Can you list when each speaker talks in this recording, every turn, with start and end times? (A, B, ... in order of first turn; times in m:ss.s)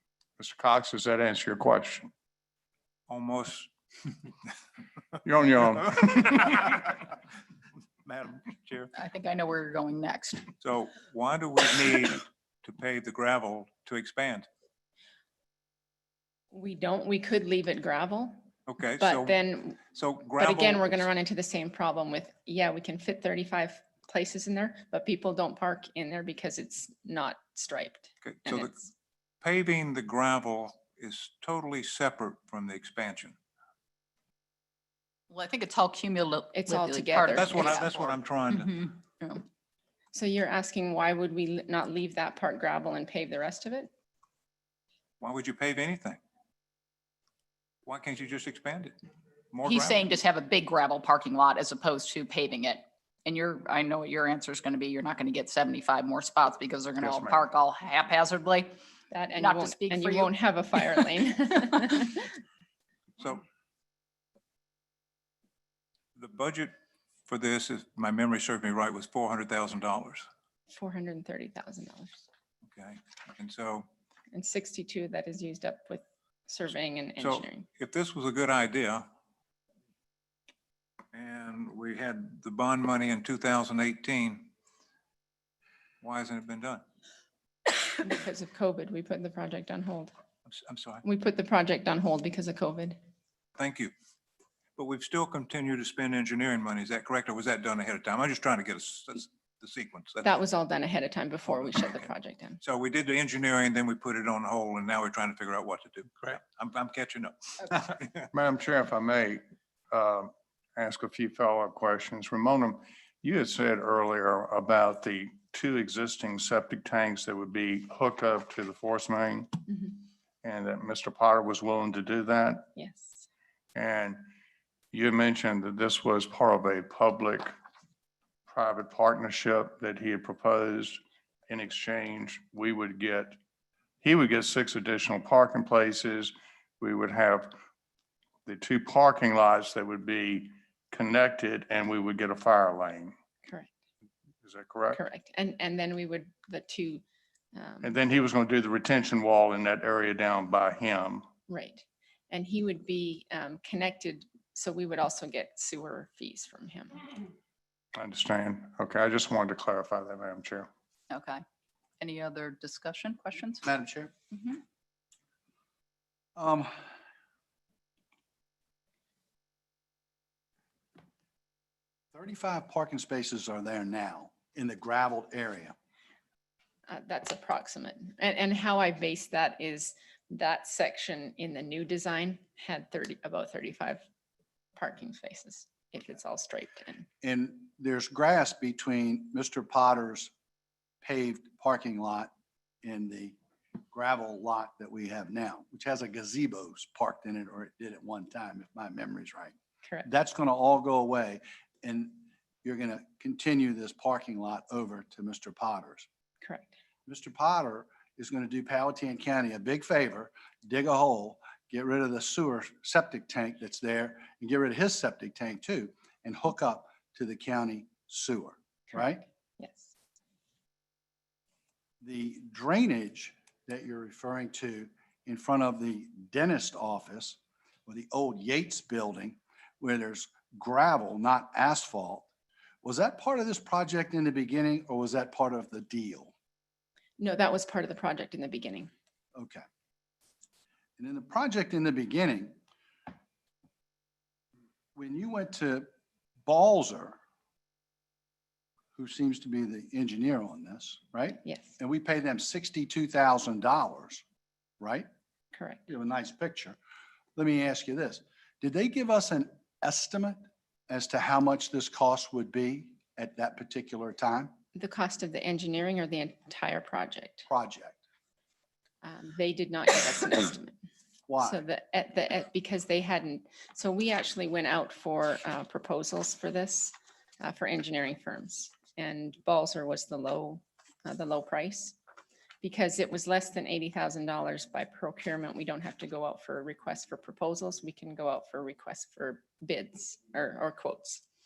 0:00.4-0:02.1 A
0:03.1-0:03.7 B
0:05.2-0:06.7 A
0:06.4-0:07.2 B
0:08.0-0:08.9 B
0:08.9-0:10.5 C
0:10.6-0:14.5 B
0:16.5-0:18.4 D
0:18.7-0:19.4 B
0:19.0-0:19.8 D
0:19.9-0:21.0 B
0:20.4-0:28.9 D
0:28.2-0:28.8 B
0:29.4-0:33.4 B
0:35.3-0:39.4 C
0:36.5-0:37.8 D
0:37.3-0:38.8 B
0:40.1-0:43.9 D
0:45.2-0:46.2 B
0:47.8-0:49.0 B
0:49.5-0:50.0 B
0:49.6-0:58.8 C
0:57.0-0:57.3 A
0:59.1-1:02.3 D
0:59.4-1:01.1 C
1:03.2-1:03.4 B
1:06.2-1:06.7 B
1:07.3-1:10.2 B
1:10.7-1:12.2 D
1:12.7-1:13.8 B
1:14.3-1:17.7 D
1:17.2-1:19.0 B
1:21.1-1:24.5 B
1:26.0-1:26.8 B
1:28.0-1:30.1 D
1:30.5-1:31.0 B
1:31.0-1:33.0 D
1:33.6-1:33.9 B
1:34.8-1:40.3 B
1:40.2-1:42.6 D
1:42.6-1:48.2 B
1:48.3-1:59.5 A
1:59.7-2:00.0 D
2:00.4-2:02.7 A
2:02.8-2:03.3 D
2:03.8-2:04.2 A
2:04.9-2:07.5 A
2:08.5-2:13.4 A
2:14.0-2:17.5 A
2:18.4-2:23.1 A
2:23.4-2:23.7 D
2:24.4-2:25.0 A
2:24.9-2:27.0 D
2:27.5-2:28.0 D
2:27.8-2:31.2 A
2:31.5-2:37.2 D
2:37.9-2:40.7 A
2:41.1-2:41.4 C
2:42.0-2:43.6 C
2:43.6-2:44.1 E
2:44.3-2:44.6 C
2:46.4-2:46.8 E
2:52.1-2:55.7 E
2:56.9-3:04.0 D
3:04.8-3:07.0 D
3:07.2-3:10.3 E
3:11.0-3:12.3 E
3:12.8-3:13.3 E
3:13.9-3:19.5 E
3:20.0-3:26.1 E
3:26.4-3:26.7 D
3:27.1-3:39.2 E
3:38.9-3:39.9 D
3:42.0-3:52.3 E
3:52.8-3:56.3 E
3:57.2-3:58.9 D
3:59.3-3:59.6 E
4:01.0-4:02.5 E
4:05.0-4:05.9 E
4:06.4-4:07.2 E
4:09.0-4:14.2 E
4:11.4-4:11.7 D
4:14.8-4:15.1 E
4:15.5-4:15.8 D
4:15.9-4:16.8 E
4:17.4-4:24.5 E
4:24.7-4:27.5 D
4:27.5-4:28.0 E
4:29.0-4:30.8 D
4:31.3-4:31.6 E
4:31.4-4:42.0 D
4:42.6-4:51.2 D